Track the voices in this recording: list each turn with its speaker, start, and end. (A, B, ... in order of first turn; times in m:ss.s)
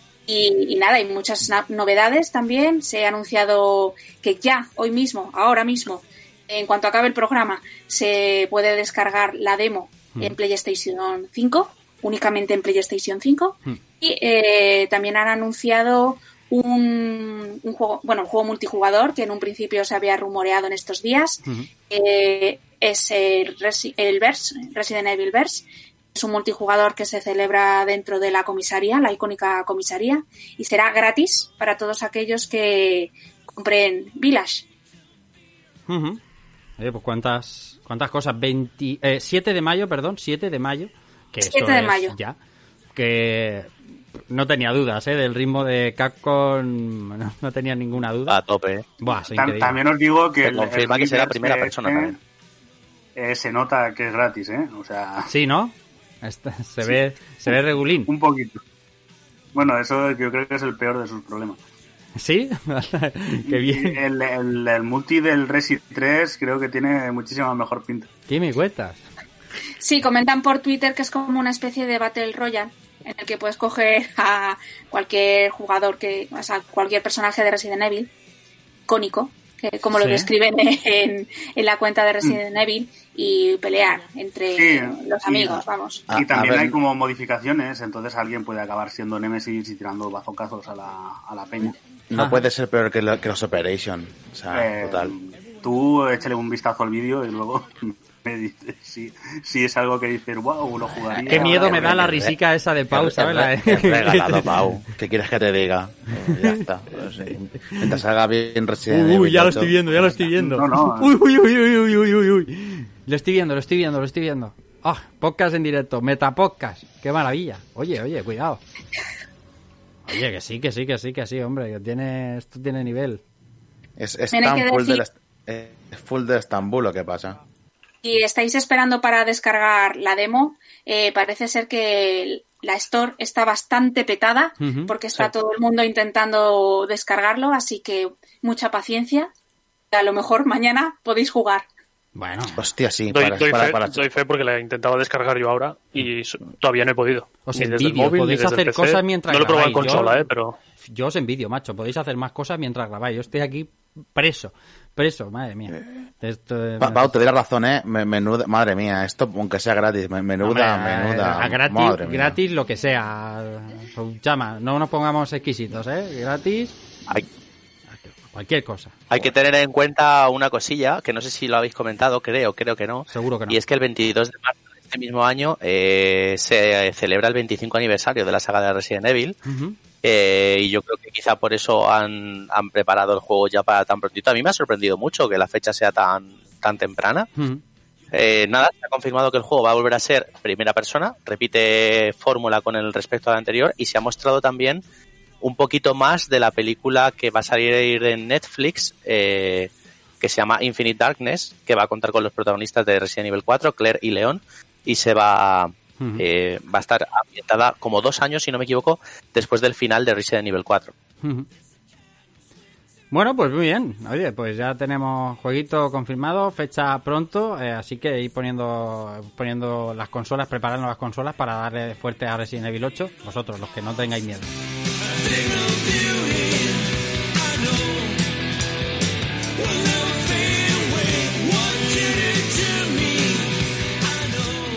0:00.3-0:34.6 A
0:35.9-0:36.2 B
0:36.8-0:42.4 B
0:41.4-0:42.2 A
0:42.9-0:48.4 B
0:48.3-0:48.8 C
0:49.0-0:49.8 B
0:49.3-0:52.2 D
0:50.4-0:52.2 C
0:53.2-0:55.3 D
0:55.3-0:58.1 B
0:58.0-0:58.6 D
0:59.5-1:01.6 D
1:02.2-1:04.0 B
1:03.4-1:08.1 D
1:08.3-1:09.0 B
1:09.8-1:18.1 A
1:18.9-1:26.1 A
1:19.9-1:20.3 B
1:24.6-1:25.6 D
1:26.1-1:26.8 E
1:26.1-1:31.8 D
1:32.1-1:35.1 E
1:32.1-1:32.4 B
1:34.5-1:42.0 D
1:41.1-1:42.4 E
1:41.2-1:44.7 B
1:42.9-1:50.3 E
1:46.3-1:46.6 B
1:47.3-1:48.0 B
1:48.9-1:58.6 B
1:50.4-1:51.1 D
2:00.0-2:03.2 B
2:04.0-2:07.4 E
2:04.3-2:05.0 A
2:08.0-2:19.3 A
2:14.6-2:15.2 B
2:19.9-2:21.6 A
2:22.2-2:22.6 B
2:22.6-2:24.0 E
2:23.1-2:30.6 F
2:27.5-2:30.2 B
2:30.8-2:37.1 B
2:36.8-2:42.4 E
2:40.4-2:46.8 B
2:47.9-2:49.3 B
2:49.1-2:59.4 C
2:53.1-2:53.6 B
2:59.4-2:59.8 B
3:00.0-3:07.3 C
3:07.4-3:07.6 B
3:08.1-3:14.8 C
3:15.4-3:19.7 C
3:20.2-3:30.9 C
3:31.2-3:31.5 B
3:33.1-3:44.5 B